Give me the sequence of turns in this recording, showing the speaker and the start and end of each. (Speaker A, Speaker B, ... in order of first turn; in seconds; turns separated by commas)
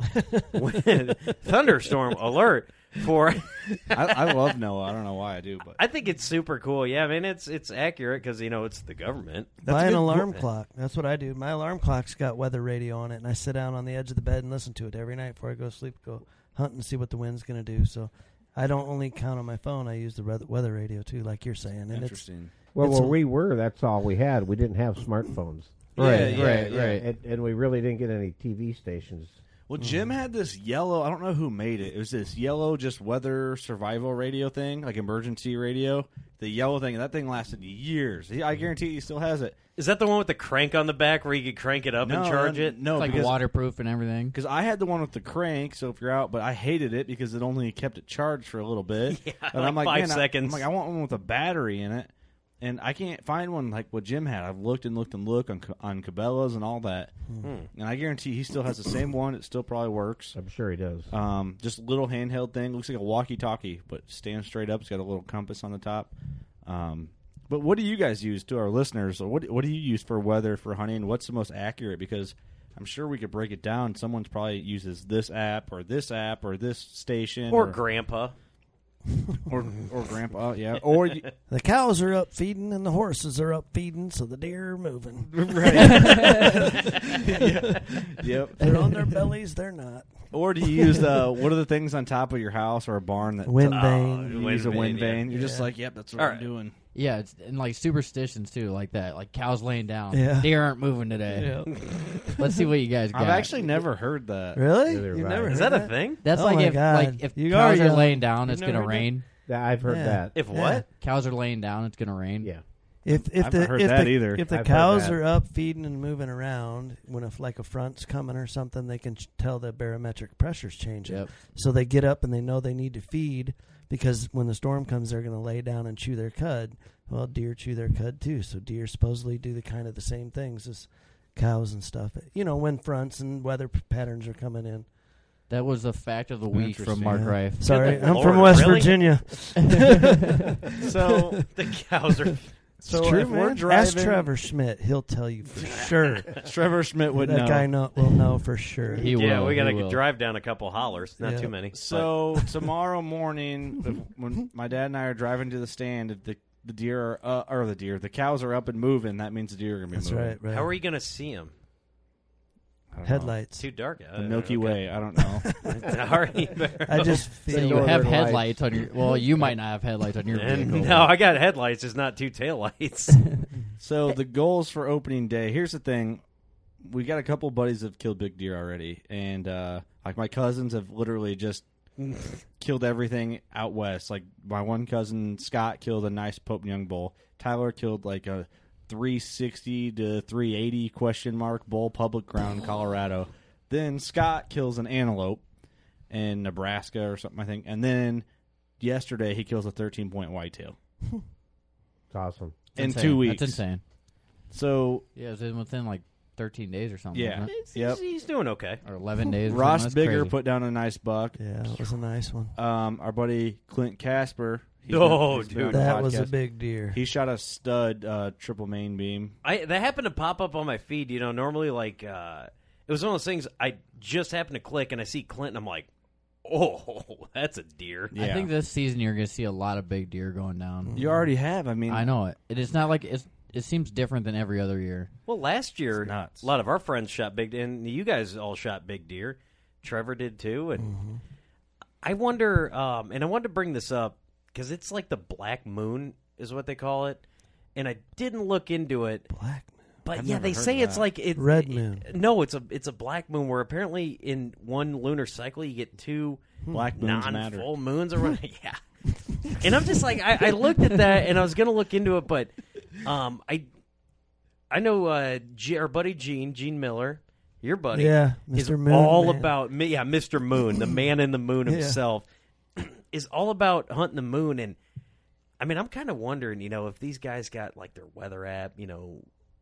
Speaker A: 0.1-0.4, Speaker B: 0.5-4.0, Speaker C: 3.9-5.8, Speaker B: 5.8-9.7, Speaker C: 9.6-10.4, Speaker A: 9.7-22.3, Speaker C: 21.9-22.5, Speaker D: 22.7-29.4, Speaker A: 22.8-23.2, Speaker C: 25.9-27.0, Speaker E: 25.9-27.0, Speaker C: 29.7-39.5, Speaker A: 29.8-30.1, Speaker B: 39.8-42.8, Speaker C: 42.0-43.4, Speaker E: 42.9-44.3, Speaker C: 44.3-52.1, Speaker B: 49.1-50.6, Speaker C: 52.6-57.1, Speaker B: 57.4-57.7, Speaker C: 57.7-60.4, Speaker D: 60.3-61.1, Speaker C: 61.1-66.1, Speaker C: 66.6-77.8, Speaker B: 77.5-78.3, Speaker C: 79.5-81.2, Speaker A: 81.5-91.3, Speaker C: 85.2-88.9, Speaker C: 90.3-96.7, Speaker A: 93.4-94.3, Speaker B: 93.7-95.3, Speaker A: 95.3-95.7, Speaker B: 96.2-96.4, Speaker E: 96.9-103.5, Speaker A: 100.1-100.6, Speaker A: 101.3-102.5, Speaker C: 103.1-104.7, Speaker A: 104.5-109.3, Speaker D: 104.8-105.8, Speaker B: 105.5-106.2, Speaker E: 106.2-109.2, Speaker D: 109.5-110.5, Speaker A: 109.8-110.8, Speaker B: 110.3-110.8, Speaker E: 111.0-112.5, Speaker A: 113.0-134.9, Speaker C: 113.1-114.5, Speaker D: 114.4-115.2, Speaker E: 121.0-121.3, Speaker E: 135.5-137.9, Speaker C: 136.5-137.5, Speaker A: 137.1-140.3, Speaker B: 137.6-139.2, Speaker C: 138.2-138.6, Speaker C: 140.8-141.4, Speaker B: 140.8-142.6, Speaker C: 142.8-144.3, Speaker A: 142.8-146.4, Speaker B: 145.6-146.4, Speaker C: 146.4-147.8, Speaker A: 147.2-149.1, Speaker E: 148.9-150.0, Speaker B: 149.1-152.3, Speaker A: 151.2-151.5, Speaker C: 151.7-160.4, Speaker A: 159.9-160.7, Speaker B: 160.5-161.5, Speaker C: 162.9-163.4, Speaker A: 163.0-163.6, Speaker B: 163.6-164.9, Speaker C: 164.1-165.6, Speaker B: 165.6-167.3, Speaker A: 166.9-168.1, Speaker D: 167.3-168.7, Speaker E: 167.5-171.1, Speaker B: 170.3-173.3, Speaker C: 173.8-176.2, Speaker C: 176.8-181.6, Speaker C: 182.6-195.4, Speaker C: 196.1-198.2, Speaker C: 198.8-200.8, Speaker D: 202.1-202.6, Speaker C: 202.7-203.6, Speaker E: 202.8-203.8, Speaker C: 204.5-205.1, Speaker E: 205.2-207.5, Speaker C: 207.1-208.0, Speaker B: 207.5-208.8, Speaker E: 208.8-210.3, Speaker C: 209.5-211.8, Speaker A: 211.4-212.5, Speaker C: 212.5-219.3, Speaker B: 214.9-216.0, Speaker A: 215.7-217.0, Speaker B: 219.4-225.9, Speaker B: 226.4-228.1, Speaker C: 228.1-228.5, Speaker E: 228.1-231.0, Speaker A: 230.9-231.2, Speaker C: 230.9-232.1, Speaker E: 231.9-235.1, Speaker B: 235.3-240.9, Speaker C: 236.0-236.5, Speaker A: 240.8-241.2, Speaker B: 242.0-247.2, Speaker B: 247.8-249.3, Speaker A: 249.3-249.8, Speaker B: 250.0-256.4, Speaker C: 250.1-251.1, Speaker A: 251.3-252.1, Speaker C: 256.7-257.7, Speaker B: 256.9-258.8, Speaker B: 259.4-263.6, Speaker B: 264.7-274.8, Speaker A: 267.9-269.5, Speaker A: 271.6-272.0, Speaker B: 275.6-279.2